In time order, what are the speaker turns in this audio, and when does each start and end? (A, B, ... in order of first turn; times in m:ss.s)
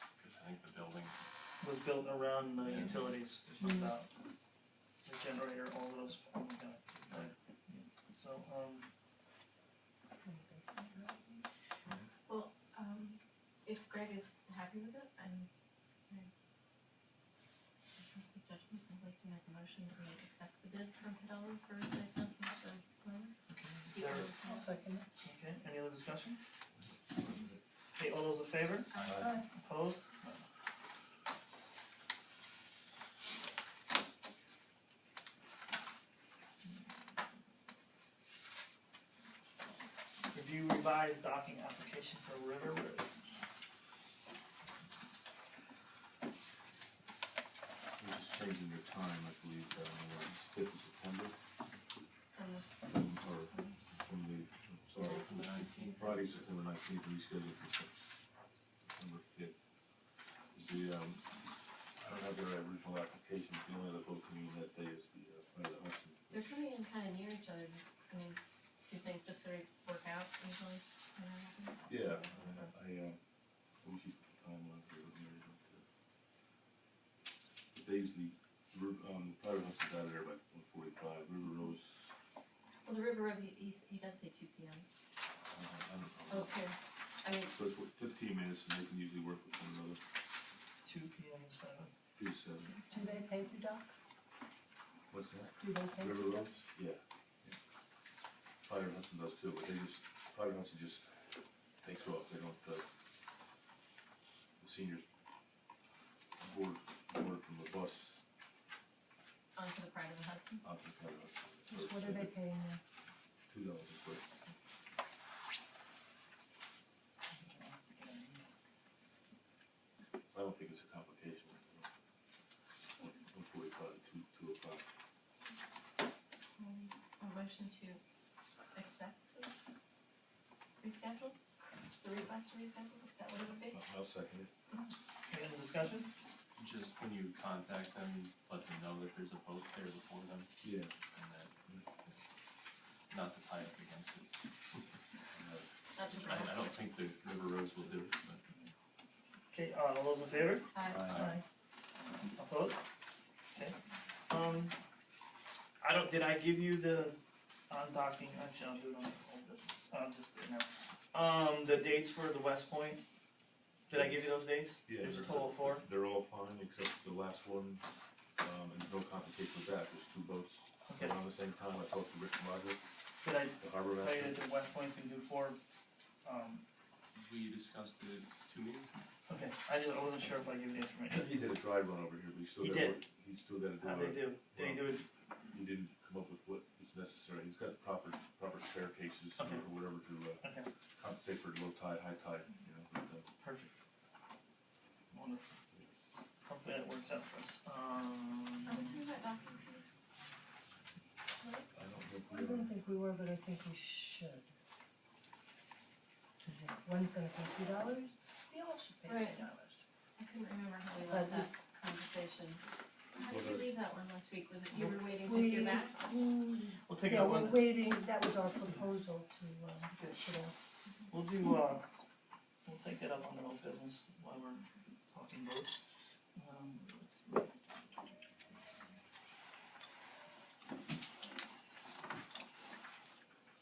0:00.2-0:01.2 A
0:01.6-0:04.1 B
0:02.6-0:03.2 A
0:03.6-0:03.9 C
0:05.0-0:08.9 B
0:10.2-0:11.4 C
0:12.3-0:15.5 D
0:18.0-0:23.3 D
0:23.5-0:24.4 B
0:23.9-0:24.6 D
0:24.0-0:25.1 C
0:25.2-0:26.4 B
0:26.9-0:27.6 E
0:28.0-0:30.4 B
0:28.9-0:29.3 A
0:29.0-0:29.3 E
0:29.1-0:29.4 C
0:40.3-0:43.1 B
0:48.0-0:51.3 E
0:52.3-0:52.9 D
0:52.8-0:55.3 E
0:53.5-0:53.8 D
0:55.0-0:56.1 D
0:55.0-0:56.5 A
0:56.0-0:57.9 E
0:58.9-0:59.6 E
1:00.5-1:01.3 E
1:02.0-1:06.6 E
1:06.3-1:12.7 D
1:11.9-1:13.2 E
1:13.8-1:15.8 E
1:17.7-1:22.1 E
1:22.8-1:24.9 D
1:25.5-1:26.6 E
1:26.3-1:27.5 D
1:27.5-1:30.0 E
1:30.8-1:31.9 B
1:32.2-1:32.8 E
1:32.9-1:33.9 C
1:35.1-1:37.6 E
1:35.6-1:36.5 C
1:38.6-1:41.2 E
1:41.8-1:42.8 E
1:44.6-1:45.0 E
1:46.4-1:48.2 E
1:49.5-1:50.6 D
1:50.6-1:52.3 E
1:51.7-1:52.8 C
1:53.5-1:54.3 E
1:57.3-1:58.4 B
2:00.3-2:01.8 E
2:03.0-2:04.8 E
2:06.6-2:08.0 D
2:08.7-2:09.5 D
2:10.8-2:11.4 D
2:12.0-2:13.9 D
2:13.7-2:14.5 E
2:15.3-2:16.1 B
2:16.6-2:20.5 A
2:20.6-2:20.9 E
2:21.1-2:22.2 A
2:23.1-2:24.3 A
2:25.3-2:25.7 E
2:25.9-2:26.7 D
2:26.1-2:28.4 A
2:29.5-2:31.4 B
2:30.7-2:31.2 D
2:30.9-2:31.3 A
2:30.9-2:31.3 E
2:32.0-2:32.8 B
2:34.3-2:34.7 B
2:35.8-2:37.2 B
2:37.7-2:43.0 B
2:43.9-2:45.8 B
2:43.9-2:44.2 E
2:44.8-2:47.8 E
2:48.4-2:52.8 E
2:50.9-2:51.2 B
2:53.2-2:55.6 B
2:53.6-2:54.4 E
2:56.2-2:56.6 B
2:57.1-2:59.0 A
2:59.3-3:01.3 B
3:01.1-3:04.9 E
3:02.6-3:03.0 B
3:03.8-3:05.0 B
3:05.5-3:10.4 E
3:09.4-3:09.6 B
3:10.4-3:10.7 B
3:11.0-3:13.2 E
3:13.4-3:13.7 B
3:15.1-3:15.6 B
3:16.4-3:19.0 B
3:18.6-3:19.9 D
3:21.7-3:22.7 E
3:22.3-3:24.5 C
3:26.4-3:29.8 C
3:29.0-3:29.5 D
3:30.2-3:32.6 D
3:31.1-3:31.5 C
3:33.1-3:36.0 D
3:33.2-3:33.7 E
3:34.7-3:35.0 B
3:35.2-3:40.5 C
3:36.8-3:37.7 B
3:39.9-3:40.2 B
3:41.1-3:41.8 B
3:42.6-3:45.8 B
3:46.3-3:48.1 B